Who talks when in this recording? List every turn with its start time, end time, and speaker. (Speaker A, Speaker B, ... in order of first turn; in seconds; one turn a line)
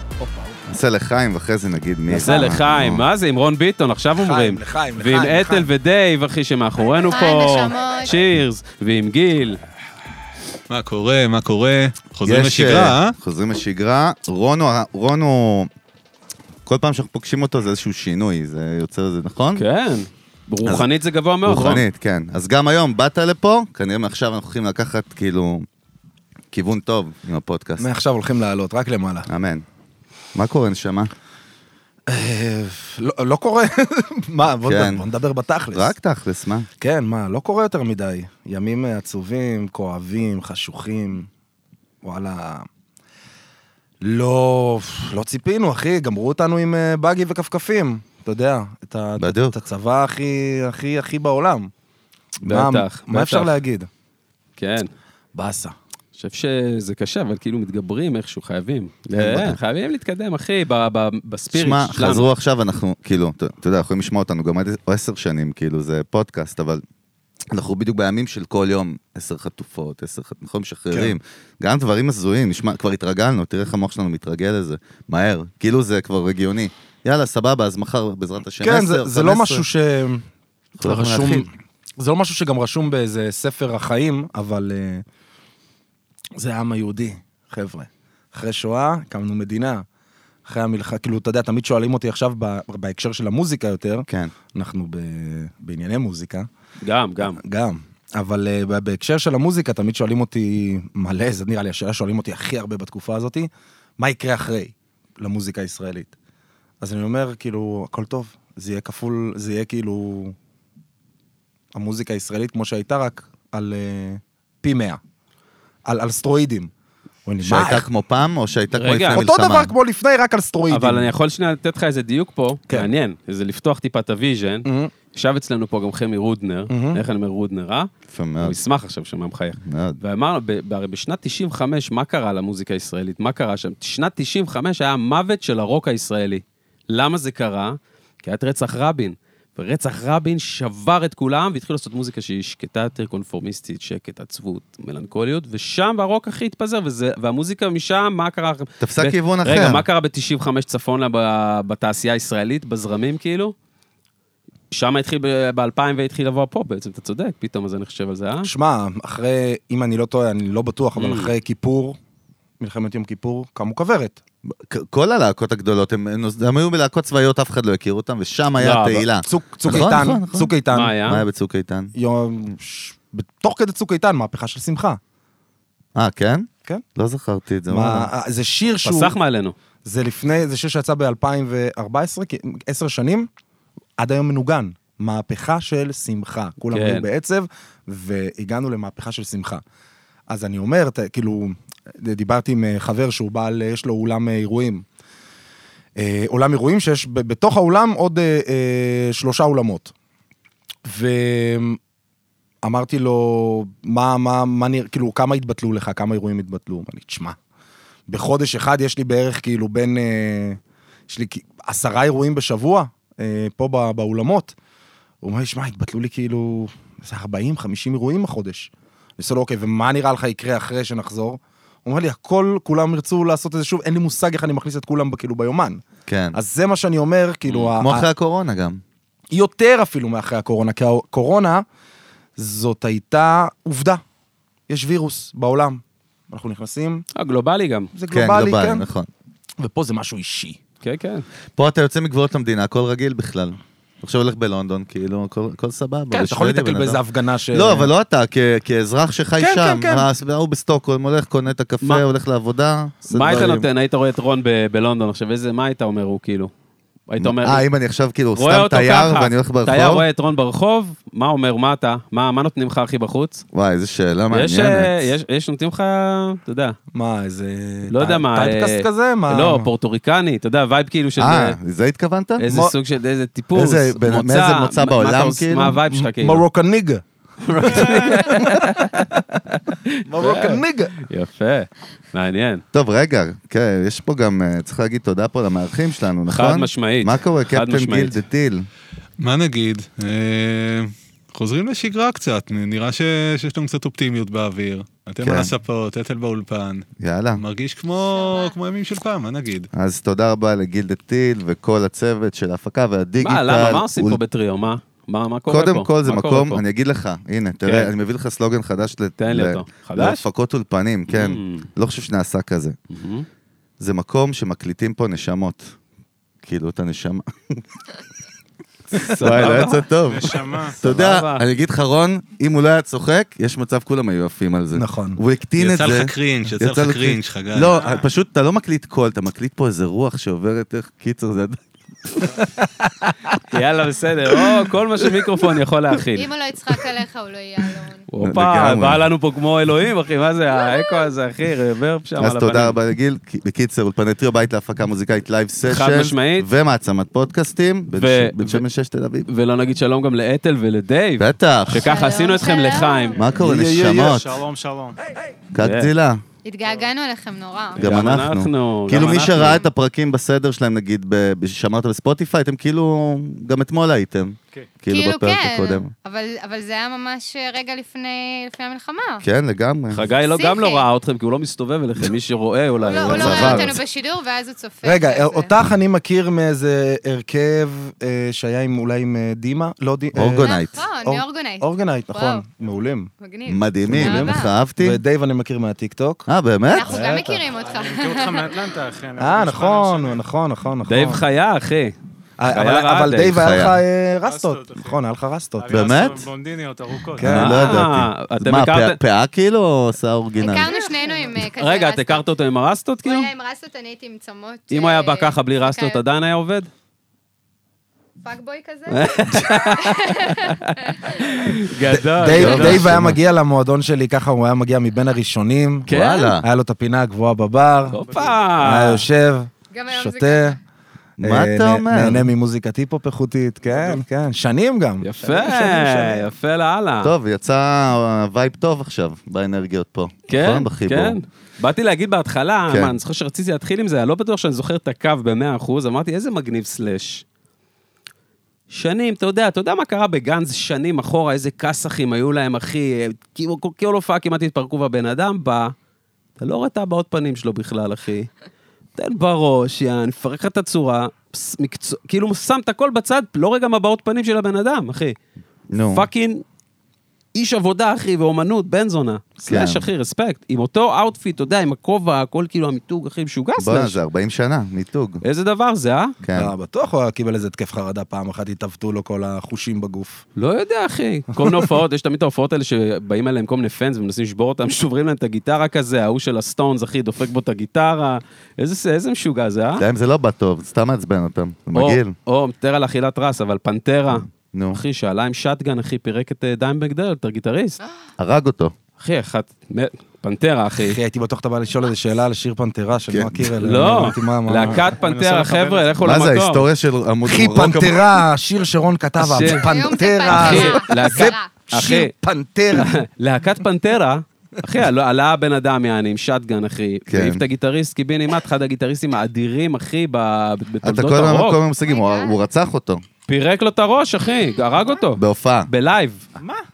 Speaker A: 0.2-0.6
Speaker B: 0.7-3.1
Speaker C: 2.1-9.6
Speaker A: 2.2-2.5
Speaker A: 4.2-5.7
Speaker D: 6.8-8.2
Speaker E: 10.7-13.2
Speaker B: 12.2-15.7
Speaker B: 16.6-19.6
Speaker C: 19.6-21.8
Speaker B: 21.4-25.6
Speaker B: 26.5-27.9
Speaker A: 27.8-29.3
Speaker B: 29.3-29.6
Speaker B: 30.3-31.1
Speaker A: 32.1-35.9
Speaker B: 34.6-35.0
Speaker B: 35.7-36.7
Speaker A: 36.8-41.3
Speaker A: 42.0-42.7
Speaker A: 44.0-51.7
Speaker B: 49.2-49.5
Speaker A: 52.4-53.9
Speaker C: 52.4-53.6
Speaker C: 54.6-54.9
Speaker A: 55.3-55.7
Speaker C: 56.1-62.3
Speaker B: 59.1-59.6
Speaker B: 61.5-66.8
Speaker B: 67.5-79.7
Speaker A: 78.6-80.2
Speaker B: 80.8-81.5
Speaker A: 80.8-85.0
Speaker A: 86.4-89.8
Speaker A: 90.5-96.5
Speaker B: 94.1-94.3
Speaker C: 96.8-97.4
Speaker A: 97.3-106.1
Speaker A: 106.8-110.3
Speaker A: 111.7-115.0
Speaker A: 115.8-116.7
Speaker A: 117.2-117.8
Speaker B: 117.4-119.7
Speaker C: 118.7-119.3
Speaker A: 119.1-121.1
Speaker C: 120.7-153.5
Speaker A: 124.6-124.9
Speaker A: 126.7-127.0
Speaker B: 128.1-128.6
Speaker B: 129.6-130.0
Speaker B: 148.8-149.8
Speaker C: 154.7-158.5
Speaker A: 158.4-162.0
Speaker C: 161.0-161.3
Speaker A: 162.6-164.2
Speaker B: 164.4-170.5
Speaker C: 168.6-169.1
Speaker A: 169.2-171.0
Speaker C: 170.7-171.2
Speaker B: 171.1-171.9
Speaker A: 171.9-175.0
Speaker B: 175.9-178.1
Speaker A: 177.7-179.1
Speaker C: 178.8-179.6
Speaker A: 179.8-183.3
Speaker A: 184.0-189.6
Speaker C: 186.7-187.1
Speaker A: 190.3-194.8
Speaker A: 196.0-199.9
Speaker A: 200.8-201.8
Speaker A: 202.6-207.4
Speaker A: 208.1-214.5
Speaker A: 215.2-225.8
Speaker B: 226.1-226.4
Speaker A: 226.3-228.1
Speaker B: 227.8-228.8
Speaker A: 229.3-231.6
Speaker A: 232.4-234.0
Speaker A: 234.7-237.0
Speaker C: 237.2-237.9
Speaker A: 237.9-238.8
Speaker B: 238.1-239.1
Speaker A: 239.6-240.6
Speaker C: 240.8-241.2
Speaker B: 241.6-253.7
Speaker A: 246.1-247.9
Speaker A: 249.4-250.1
Speaker C: 253.1-256.5
Speaker C: 257.1-257.6
Speaker B: 257.2-260.0
Speaker C: 258.3-263.4
Speaker B: 263.5-265.1
Speaker C: 264.3-266.8
Speaker A: 266.9-269.7
Speaker C: 267.9-271.6
Speaker B: 271.2-272.4
Speaker C: 272.4-276.4
Speaker A: 272.5-272.7
Speaker B: 273.5-275.8
Speaker A: 275.9-277.0
Speaker C: 277.4-282.6
Speaker A: 277.6-279.2
Speaker A: 280.1-280.9
Speaker B: 282.7-288.7
Speaker C: 286.3-288.2
Speaker E: 289.2-299.7
Speaker B: 295.2-295.5
Speaker B: 297.0-297.4
Speaker D: 298.2-298.5
Speaker B: 299.7-304.2
Speaker C: 303.2-306.6
Speaker B: 305.5-312.8
Speaker C: 307.6-307.9
Speaker C: 309.2-310.2
Speaker C: 311.1-311.7
Speaker C: 312.9-313.2
Speaker B: 313.8-315.7
Speaker B: 316.4-317.6
Speaker C: 318.9-319.9
Speaker B: 318.9-331.6
Speaker F: 320.1-320.8
Speaker C: 320.8-321.4
Speaker A: 324.7-325.2
Speaker E: 325.6-327.8
Speaker F: 327.7-328.0
Speaker A: 332.4-333.4
Speaker C: 333.5-336.3
Speaker D: 336.1-338.1
Speaker C: 338.1-342.7
Speaker B: 338.2-339.1
Speaker B: 342.2-349.3
Speaker C: 345.6-346.5
Speaker C: 347.9-348.6
Speaker C: 349.3-353.2
Speaker B: 351.2-352.1
Speaker D: 351.7-353.2
Speaker B: 353.1-354.4
Speaker F: 353.3-355.0
Speaker B: 355.5-356.2
Speaker C: 355.6-355.9
Speaker D: 356.4-357.8
Speaker C: 357.8-359.6
Speaker B: 357.8-365.9
Speaker D: 359.0-359.7
Speaker D: 364.9-369.2
Speaker B: 369.2-370.0
Speaker C: 369.9-373.6
Speaker D: 370.2-370.9
Speaker D: 372.9-375.5
Speaker B: 372.9-373.8
Speaker A: 373.0-373.7
Speaker A: 374.8-383.1
Speaker B: 380.1-380.8
Speaker D: 380.4-382.4
Speaker D: 383.2-384.5
Speaker B: 383.4-385.0
Speaker A: 383.8-386.3
Speaker B: 386.3-387.0
Speaker D: 386.7-388.5
Speaker A: 386.9-387.4
Speaker F: 387.6-390.2
Speaker A: 389.2-391.2
Speaker C: 390.8-391.9
Speaker A: 392.4-395.9
Speaker C: 392.5-393.4
Speaker B: 393.2-393.8
Speaker F: 394.2-394.9
Speaker F: 395.6-397.3
Speaker B: 395.7-396.3
Speaker A: 397.2-397.7
Speaker B: 397.2-400.7
Speaker C: 397.2-399.0
Speaker D: 400.4-402.2
Speaker C: 401.4-403.3
Speaker D: 403.0-406.0
Speaker C: 404.7-406.7
Speaker D: 408.2-411.4
Speaker C: 408.9-413.0
Speaker A: 411.9-415.9
Speaker B: 412.2-413.2
Speaker C: 415.9-416.3
Speaker B: 415.9-416.4
Speaker A: 416.4-418.0
Speaker C: 417.9-419.0
Speaker F: 418.1-418.5
Speaker A: 418.6-420.6
Speaker D: 419.7-420.6
Speaker B: 421.2-422.3
Speaker A: 421.2-426.3
Speaker F: 423.7-424.0
Speaker C: 425.0-427.1
Speaker B: 427.0-431.2
Speaker C: 430.3-437.2
Speaker B: 432.7-433.0
Speaker C: 438.7-445.7
Speaker C: 446.4-448.3
Speaker C: 449.0-455.1
Speaker B: 455.7-456.1
Speaker C: 455.7-456.4
Speaker C: 457.3-464.0
Speaker B: 459.4-459.9
Speaker B: 463.6-465.2
Speaker C: 465.2-466.1
Speaker B: 466.2-466.5
Speaker A: 466.3-470.2
Speaker C: 470.4-479.8
Speaker A: 471.4-471.7
Speaker B: 479.8-482.1
Speaker C: 481.7-487.8
Speaker B: 484.5-484.8
Speaker B: 488.2-488.7
Speaker C: 489.0-491.0
Speaker A: 490.7-494.8
Speaker B: 493.1-493.9
Speaker C: 493.6-496.6
Speaker F: 494.6-495.9
Speaker B: 496.0-498.2
Speaker A: 497.2-503.0
Speaker C: 499.2-499.7
Speaker D: 499.4-501.5
Speaker C: 500.2-502.1
Speaker C: 502.7-511.6
Speaker B: 507.1-507.4
Speaker B: 510.8-513.0
Speaker D: 511.8-512.4
Speaker C: 513.3-516.3
Speaker B: 515.2-515.7